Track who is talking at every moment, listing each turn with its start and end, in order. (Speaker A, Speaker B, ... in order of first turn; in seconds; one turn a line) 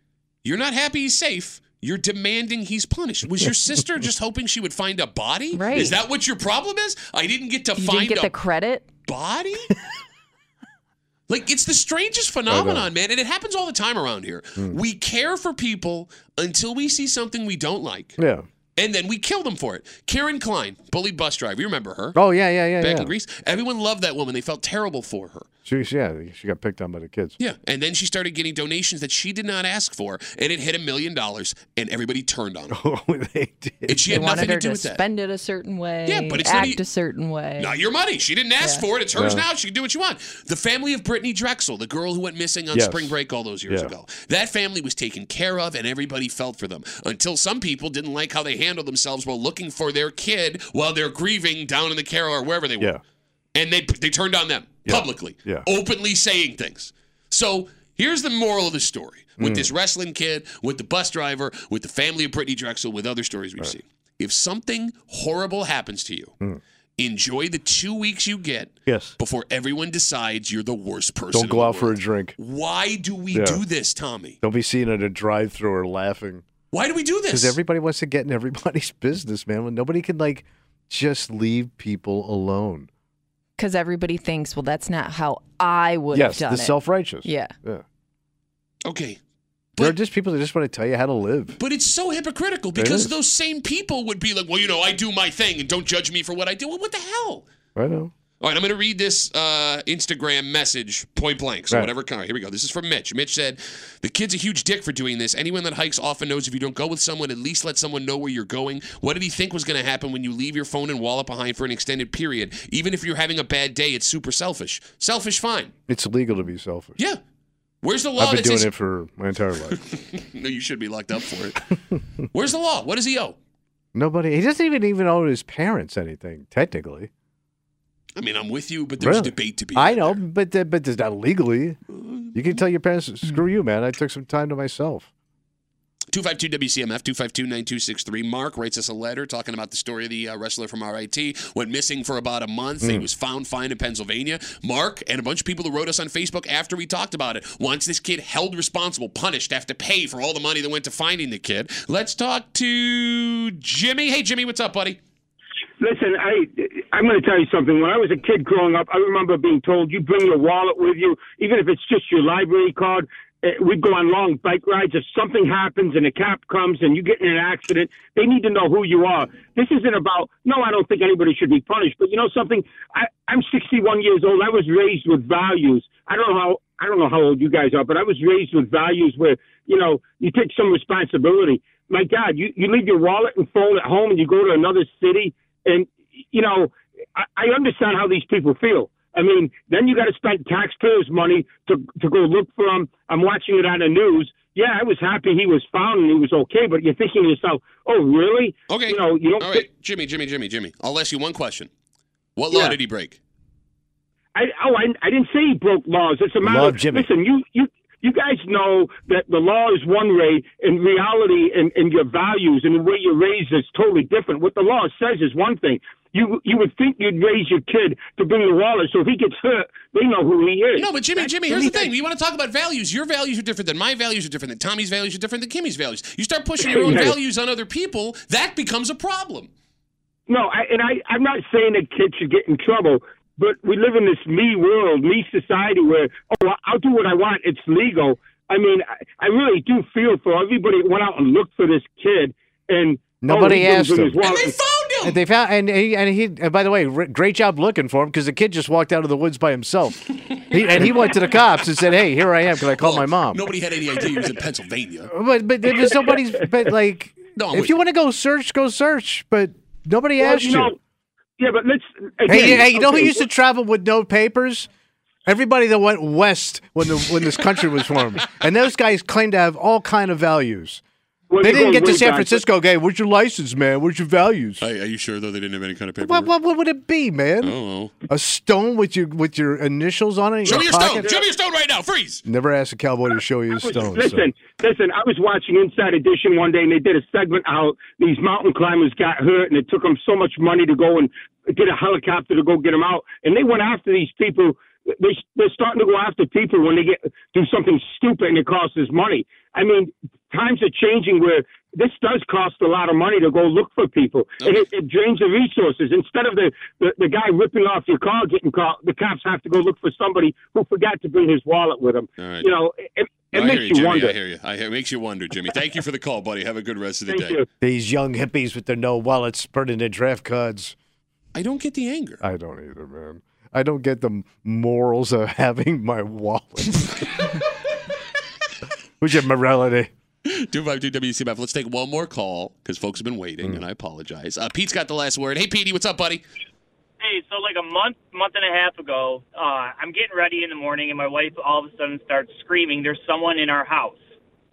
Speaker A: 0.4-8.3
Speaker B: 5.5-5.9
Speaker B: 7.8-8.9
Speaker A: 9.1-9.7
Speaker A: 11.3-18.2
Speaker C: 12.5-12.9
Speaker C: 18.2-18.4
Speaker A: 18.8-22.2
Speaker C: 22.1-23.1
Speaker A: 22.8-25.5
Speaker C: 25.6-27.3
Speaker A: 27.4-32.8
Speaker C: 32.7-34.5
Speaker A: 33.9-35.0
Speaker B: 34.1-37.7
Speaker A: 36.0-36.8
Speaker A: 37.6-53.0
Speaker C: 39.1-39.4
Speaker C: 42.7-43.1
Speaker A: 53.5-66.3
Speaker C: 54.9-55.7
Speaker C: 59.4-59.7
Speaker A: 67.0-74.4
Speaker C: 68.9-69.1
Speaker C: 71.3-72.3
Speaker C: 73.3-73.6
Speaker C: 74.4-76.4
Speaker A: 76.7-77.6
Speaker C: 77.3-82.9
Speaker B: 83.6-87.5
Speaker C: 86.1-87.8
Speaker A: 88.8-89.2
Speaker C: 89.8-91.6
Speaker A: 91.6-97.4
Speaker C: 92.8-93.1
Speaker C: 97.8-98.1
Speaker A: 98.4-115.7
Speaker C: 115.9-117.0
Speaker A: 117.8-118.7
Speaker C: 118.2-119.8
Speaker A: 119.7-121.7
Speaker A: 122.3-123.3
Speaker C: 123.9-127.1
Speaker A: 128.2-130.2
Speaker C: 129.0-131.8
Speaker A: 131.9-132.6
Speaker C: 132.3-135.1
Speaker A: 136.1-155.0
Speaker C: 142.8-143.1
Speaker D: 155.8-199.7
Speaker A: 198.7-201.7
Speaker A: 202.3-203.2
Speaker D: 202.5-202.8
Speaker D: 204.3-220.9
Speaker C: 206.4-207.1
Speaker A: 220.8-229.5
Speaker C: 221.5-221.8
Speaker D: 226.6-227.1
Speaker D: 230.3-244.6
Speaker C: 243.2-244.2
Speaker A: 244.2-245.2
Speaker C: 245.0-253.4
Speaker A: 250.4-251.3
Speaker A: 252.7-255.1
Speaker C: 255.1-260.7
Speaker A: 257.4-257.8
Speaker D: 260.2-260.8
Speaker D: 261.4-263.2
Speaker C: 262.3-264.7
Speaker A: 262.3-262.6
Speaker C: 265.2-270.8
Speaker D: 271.3-272.4
Speaker C: 271.4-274.6
Speaker A: 274.6-276.3
Speaker C: 276.0-277.6
Speaker A: 277.4-277.9
Speaker C: 278.1-281.1
Speaker A: 280.4-282.2
Speaker D: 280.5-281.2
Speaker C: 282.2-284.3
Speaker D: 283.5-314.2
Speaker A: 304.4-304.7
Speaker A: 312.2-312.5
Speaker A: 313.3-317.4
Speaker D: 317.1-317.4
Speaker C: 317.6-320.7
Speaker A: 321.3-322.2
Speaker C: 322.2-327.1
Speaker C: 329.0-329.9
Speaker A: 330.2-336.2
Speaker E: 337.0-344.1